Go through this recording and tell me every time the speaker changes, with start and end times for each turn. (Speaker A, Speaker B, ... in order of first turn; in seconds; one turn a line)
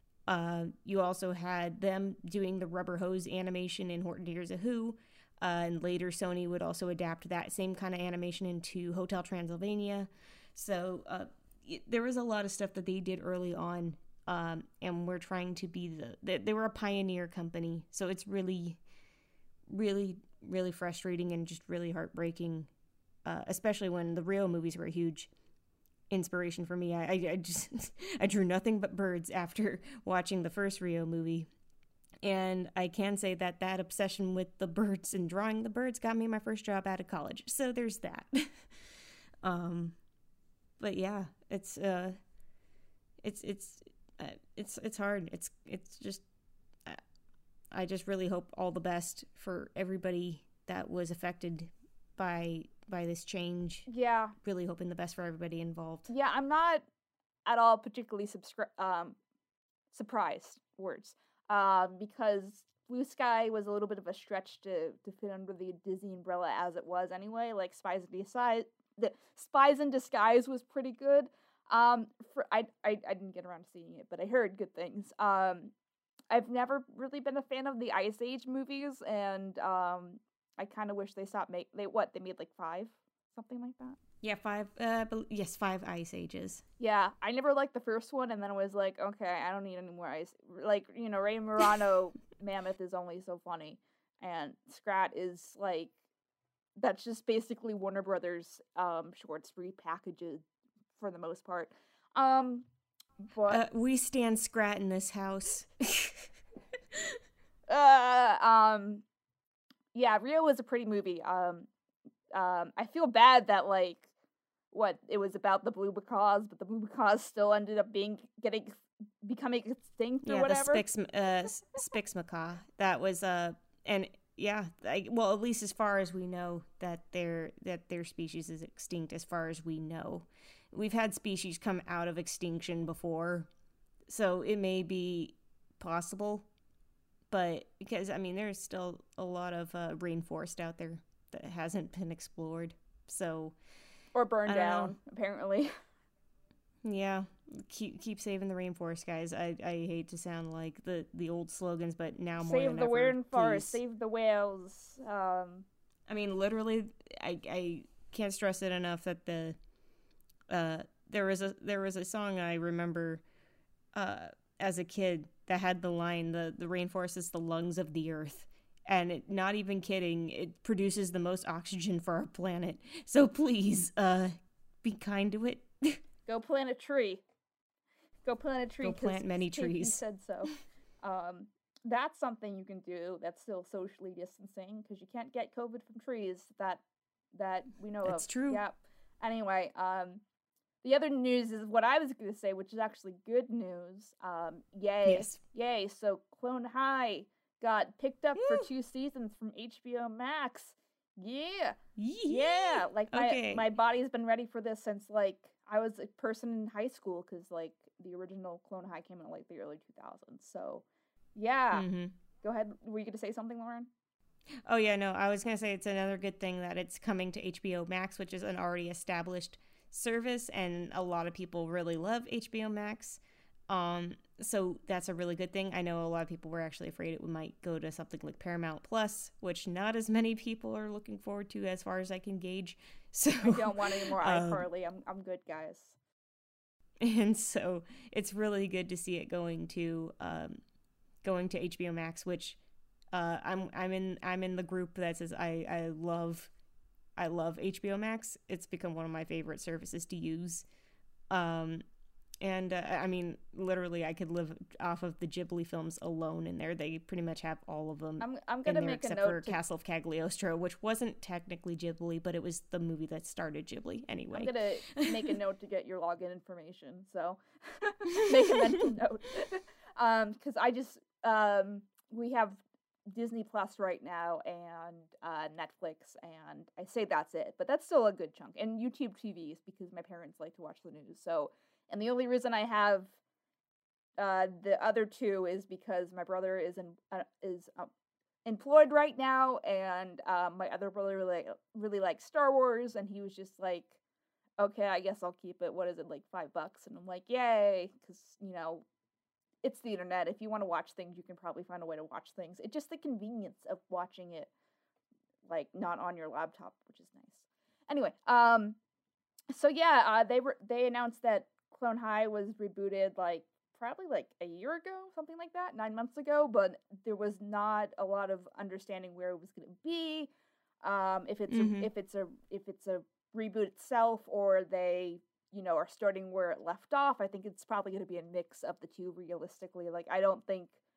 Speaker A: 0.3-18.8
Speaker A: 19.7-22.7
Speaker A: 23.2-25.3
Speaker A: 26.1-31.5
Speaker A: 32.2-38.6
Speaker A: 39.4-40.0
Speaker A: 40.8-42.2
Speaker A: 43.2-46.2
Speaker A: 47.7-53.9
Speaker B: 53.9-54.4
Speaker A: 54.4-56.1
Speaker B: 56.1-56.8
Speaker B: 57.5-59.2
Speaker B: 59.9-75.7
Speaker B: 76.3-84.0
Speaker A: 84.2-86.6
Speaker B: 86.8-95.9
Speaker B: 96.8-100.4
Speaker B: 101.0-102.7
Speaker B: 103.3-103.6
Speaker A: 103.5-106.3
Speaker B: 107.7-109.0
Speaker B: 109.9-111.7
Speaker B: 112.3-114.1
Speaker B: 114.7-120.8
Speaker A: 120.2-133.5
Speaker A: 134.1-136.5
Speaker A: 137.3-143.6
Speaker B: 144.1-145.7
Speaker A: 144.5-145.0
Speaker A: 146.8-153.8
Speaker B: 152.4-155.7
Speaker A: 156.1-159.6
Speaker A: 160.5-163.2
Speaker A: 163.9-176.0
Speaker B: 176.3-177.2
Speaker B: 178.2-180.5
Speaker A: 178.8-180.0
Speaker B: 181.0-186.8
Speaker B: 187.3-190.2
Speaker A: 188.0-188.6
Speaker B: 190.8-201.8
Speaker A: 195.1-195.4
Speaker A: 198.4-198.7
Speaker A: 202.0-203.7
Speaker B: 202.3-210.8
Speaker B: 211.4-211.9
Speaker A: 211.7-212.1
Speaker B: 212.4-213.9
Speaker A: 214.7-234.7
Speaker B: 233.4-235.9
Speaker A: 237.0-240.6
Speaker A: 241.2-242.6
Speaker A: 243.1-246.5
Speaker A: 247.2-250.7
Speaker A: 251.3-251.8
Speaker A: 252.4-265.3
Speaker B: 258.2-259.6
Speaker B: 264.3-283.1
Speaker A: 268.2-268.6
Speaker B: 284.2-287.9
Speaker B: 288.4-293.9
Speaker B: 294.6-298.9
Speaker B: 299.6-304.5
Speaker B: 305.5-308.8
Speaker B: 309.5-320.3
Speaker B: 320.8-330.7
Speaker A: 321.5-321.9